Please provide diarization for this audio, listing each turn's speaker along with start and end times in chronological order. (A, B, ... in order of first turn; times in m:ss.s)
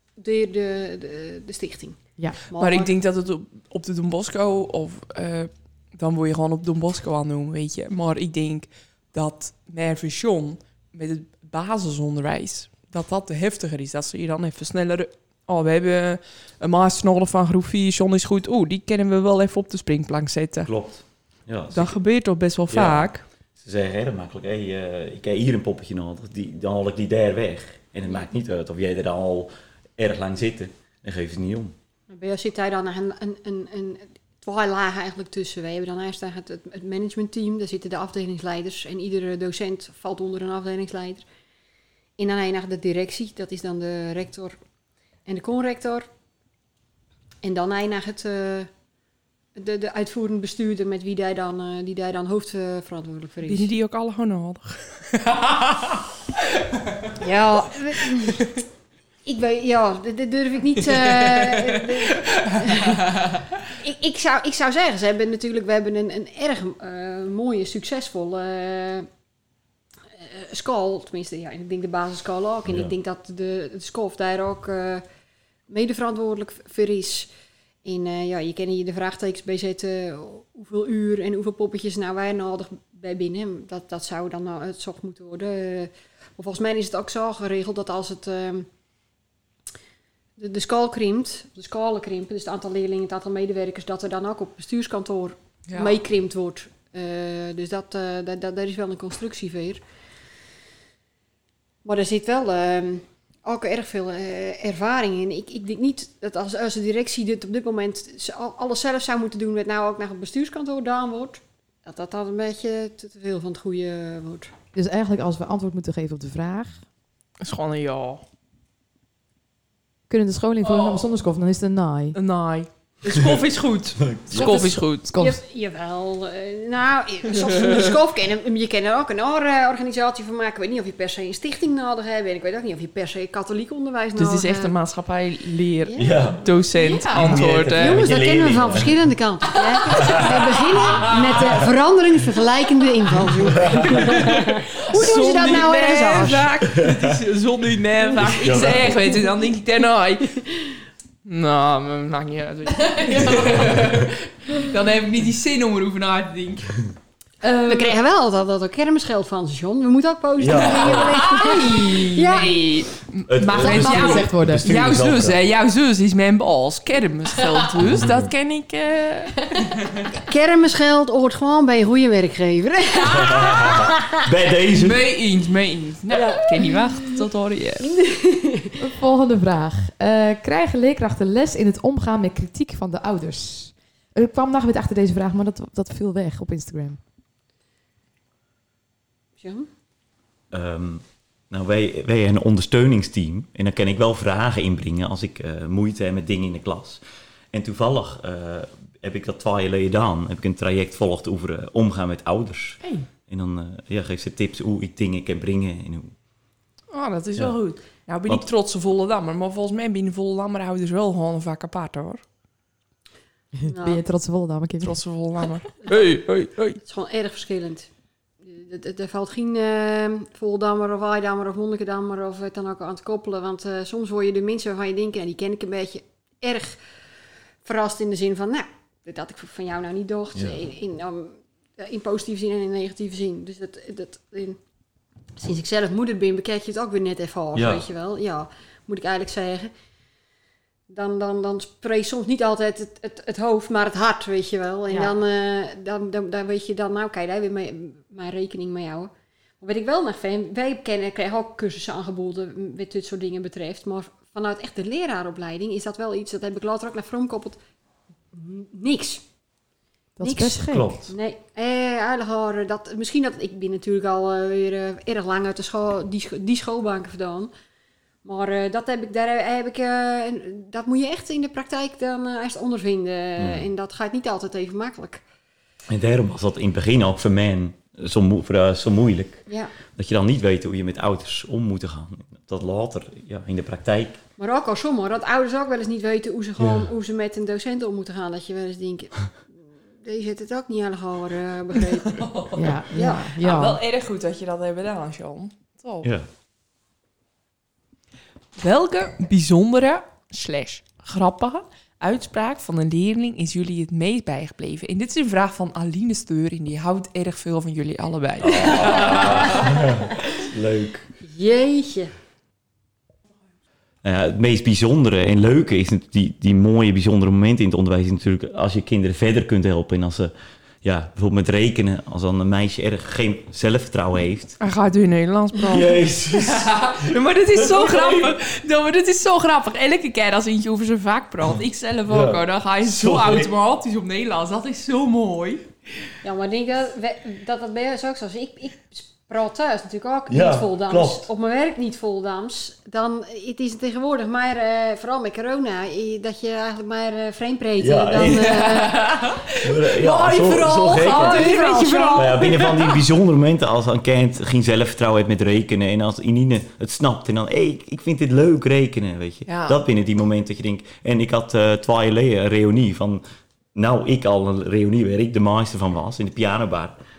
0:00.2-0:02.0 A
0:02.5-0:02.9 A
0:02.6-0:20.7 B
0:20.6-0:22.0 C
0:21.7-0:23.2 B
0:22.7-0:31.7 C
0:32.1-0:41.2 A
0:42.2-0:44.6 A
0:45.3-0:46.1 A
0:47.4-0:48.7 A
0:49.5-0:53.7 A
0:53.4-0:56.0 B
0:57.1-0:58.6 A
0:59.2-1:09.1 A
1:00.9-1:03.4 B
1:10.2-1:15.0 A
1:12.7-1:12.9 C
1:15.7-1:17.3 A
1:17.8-1:28.7 A
1:30.4-1:39.8 A
1:35.7-1:36.0 B
1:41.8-1:54.5 A
1:54.7-1:56.8 D
1:57.4-1:58.2 B
2:00.1-2:02.2 D
2:02.1-2:05.1 B
2:04.0-2:04.6 C
2:04.3-2:05.4 D
2:05.2-2:14.7 A
2:07.5-2:07.8 B
2:14.2-2:18.0 B
2:15.8-2:16.1 A
2:16.0-2:16.5 C
2:16.7-2:17.4 D
2:17.1-2:18.9 C
2:17.8-2:26.5 A
2:19.9-2:20.2 B
2:19.9-2:21.4 C
2:20.9-2:21.4 B
2:23.4-2:24.2 C
2:23.8-2:30.4 B
2:26.7-2:27.2 C
2:28.2-2:29.2 C
2:31.2-2:36.7 B
2:37.4-2:38.0 D
2:37.6-2:42.6 A
2:40.4-2:41.3 C
2:40.5-2:50.1 B
2:43.3-2:45.4 C
2:43.6-2:44.7 D
2:47.8-2:48.3 C
2:50.2-2:54.1 A
2:53.0-2:55.0 C
2:54.7-2:57.9 B
2:56.1-2:56.4 A
2:57.9-2:58.8 A
2:58.8-3:07.0 D
3:09.4-3:09.7 A
3:10.5-3:17.0 C
3:17.5-3:26.1 C
3:26.9-3:32.2 B
3:33.6-3:35.0 D
3:33.7-3:34.0 A
3:34.8-3:36.8 B
3:36.8-3:37.9 A
3:38.4-3:46.8 A
3:47.6-3:54.6 A
3:50.3-3:50.6 C
3:55.4-3:59.7 A
3:57.5-3:57.8 C
4:00.9-4:17.6 A
4:18.3-4:19.2 A
4:20.2-4:21.0 D
4:20.2-4:27.5 A
4:20.6-4:21.1 C
4:28.2-4:35.2 A
4:33.4-4:33.6 C
4:35.9-4:44.2 C
4:44.4-4:49.3 A
4:46.6-4:46.9 C
4:50.0-4:52.3 A
4:52.0-4:52.8 B
4:52.5-4:53.8 D
4:52.9-4:53.2 A
4:53.4-4:56.1 B
4:58.6-5:09.8 B
5:08.4-5:11.1 C
5:08.8-5:09.5 A
5:11.2-5:12.1 A
5:14.0-5:20.3 C
5:20.8-5:24.6 C
5:24.6-5:35.7 B
5:25.6-5:28.4 C
5:32.1-5:33.5 C
5:36.2-5:49.1 A
5:40.3-5:41.2 C
5:47.8-5:48.6 C
5:48.3-5:53.0 B
5:49.6-5:51.6 C
5:51.0-5:52.6 A
5:52.1-6:03.2 C
5:59.4-5:59.8 B
6:03.7-6:07.0 C